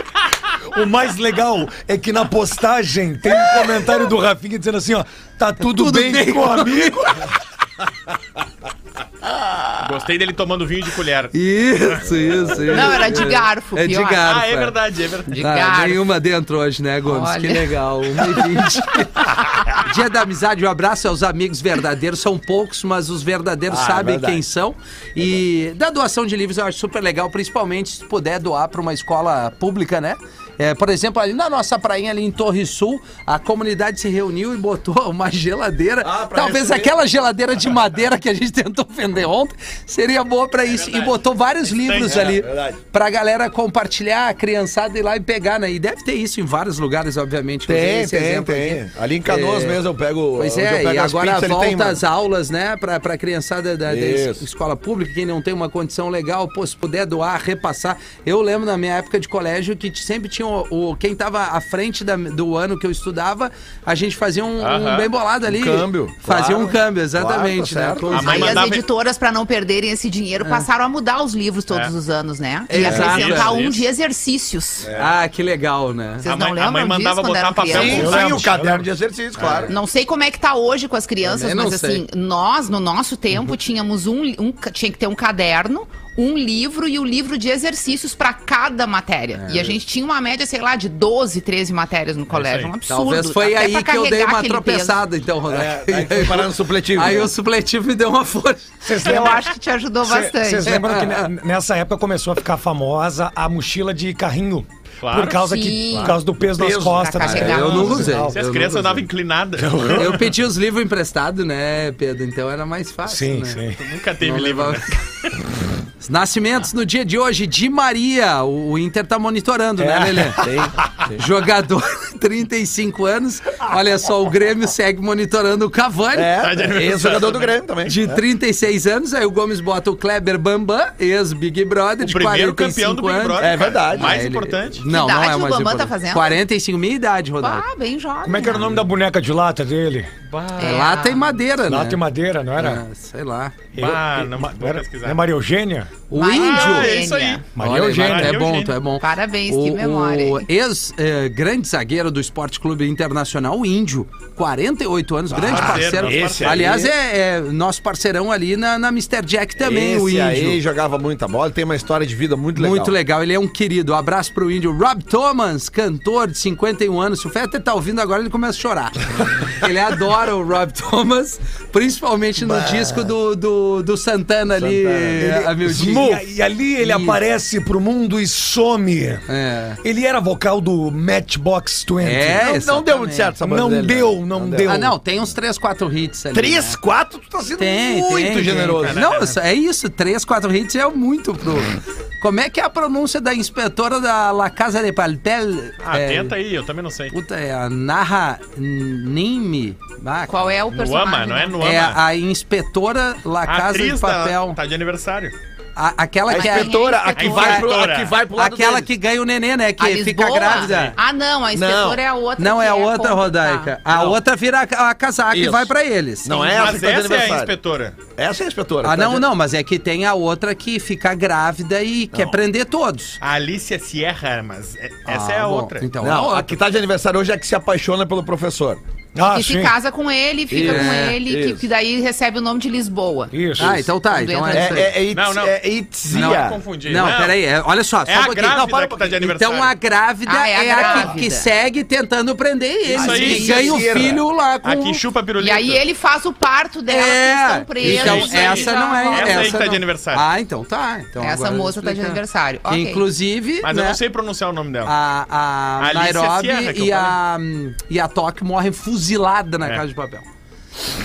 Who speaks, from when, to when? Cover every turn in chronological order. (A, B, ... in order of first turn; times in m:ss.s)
0:00.7-0:07.3 A
0:05.6-0:07.2 B
0:09.8-0:11.3 C
0:11.3-0:14.7 B
0:12.1-0:12.8 D
0:12.7-0:14.2 E
0:14.2-0:15.4 C
0:15.3-0:16.1 E
0:15.4-0:49.8 B
0:17.0-0:17.7 E
0:23.7-0:24.4 D
0:36.0-0:37.0 D
0:40.7-0:42.4 C
0:42.0-0:42.8 D
0:47.7-0:52.0 D
0:50.4-1:08.6 B
0:53.8-0:54.4 D
1:04.6-1:05.1 C
1:05.4-1:08.5 D
1:08.1-1:08.8 C
1:08.2-1:14.9 E
1:10.4-1:10.7 B
1:12.7-1:13.6 B
1:12.8-1:13.9 C
1:14.8-1:15.1 D
1:15.0-1:16.2 B
1:16.2-1:18.2 E
1:16.2-1:18.4 C
1:17.7-1:19.7 D
1:17.7-1:18.8 A
1:19.4-1:19.7 C
1:19.7-1:35.0 E
1:21.2-1:22.0 B
1:29.3-1:29.8 B
1:32.3-1:32.7 C
1:32.9-1:39.1 B
1:35.5-1:37.3 D
1:38.8-1:39.5 A
1:39.0-1:40.8 E
1:40.0-1:48.4 A
1:40.6-1:41.3 B
1:45.0-1:45.4 C
1:45.4-1:46.2 E
1:46.5-1:47.9 D
1:46.9-1:48.2 E
1:47.2-1:49.0 B
1:48.3-1:50.0 C
1:49.6-1:50.3 A
1:49.9-1:53.6 B
1:53.1-1:53.8 A
1:53.8-1:55.0 C
1:54.2-1:55.0 B
1:56.0-2:00.4 B
1:59.8-2:00.6 A
2:00.4-2:01.2 D
2:01.1-2:06.3 B
2:06.1-2:08.2 D
2:06.4-2:07.5 C
2:07.8-2:17.6 B
2:12.0-2:14.8 C
2:13.4-2:14.2 D
2:14.8-2:16.4 E
2:17.4-2:18.8 E
2:18.2-2:20.5 A
2:20.6-2:21.3 E
2:20.6-2:22.0 B
2:21.6-2:22.8 A
2:22.6-2:23.6 B
2:23.8-2:26.0 A
2:23.8-2:25.2 C
2:26.1-2:27.0 B
2:26.1-2:27.5 E
2:26.3-2:28.8 C
2:27.5-2:28.4 A
2:27.6-2:40.6 B
2:29.0-2:30.5 E
2:35.3-2:36.9 D
2:35.5-2:36.7 C
2:39.6-2:42.9 D
2:42.6-2:56.2 B
2:52.4-2:53.1 D
2:54.6-2:56.2 D
2:55.2-2:59.2 A
2:56.8-2:57.2 B
2:59.3-2:59.8 B
2:59.8-3:02.5 A
3:02.0-3:03.3 B
3:02.3-3:04.8 D
3:03.4-3:04.9 A
3:04.6-3:06.8 B
3:06.3-3:09.0 D
3:07.6-3:16.3 B
3:08.8-3:09.4 C
3:15.8-3:17.1 C
3:17.1-3:20.3 B
3:20.3-3:21.6 E
3:20.7-3:22.0 C
3:21.6-3:24.6 B
3:23.4-3:25.3 C
3:25.8-3:26.8 B
3:26.3-3:28.9 D
3:26.3-3:27.7 E
3:27.2-3:28.2 C
3:28.3-3:31.0 B
3:29.8-3:33.7 E
3:30.5-3:31.0 C
3:31.5-3:32.0 D
3:32.4-3:36.5 B
3:33.9-3:34.2 C
3:35.3-3:35.7 D
3:36.2-3:37.5 D
3:36.5-3:38.0 C
3:38.2-3:39.3 D
3:38.8-3:43.2 B
3:43.2-3:45.9 C
3:45.1-3:46.6 B
3:46.0-3:48.8 D
3:49.1-3:49.7 A
3:49.2-3:54.9 E
3:50.5-3:51.7 D
3:50.6-3:51.2 B
3:53.3-3:53.9 A
3:53.6-3:54.9 B
3:54.5-3:56.6 D
3:55.1-3:55.6 C
3:56.1-3:57.4 C
3:56.1-4:05.0 B
3:58.0-3:59.7 C
4:00.2-4:01.5 E
4:00.8-4:01.1 D
4:02.9-4:04.2 D
4:02.9-4:04.1 C
4:03.2-4:03.5 E
4:04.6-4:05.8 C
4:05.4-4:09.8 E
4:06.9-4:14.0 B
4:07.8-4:10.2 C
4:11.2-4:13.0 E
4:13.6-4:14.9 C
4:14.8-4:20.3 B
4:15.8-4:17.2 C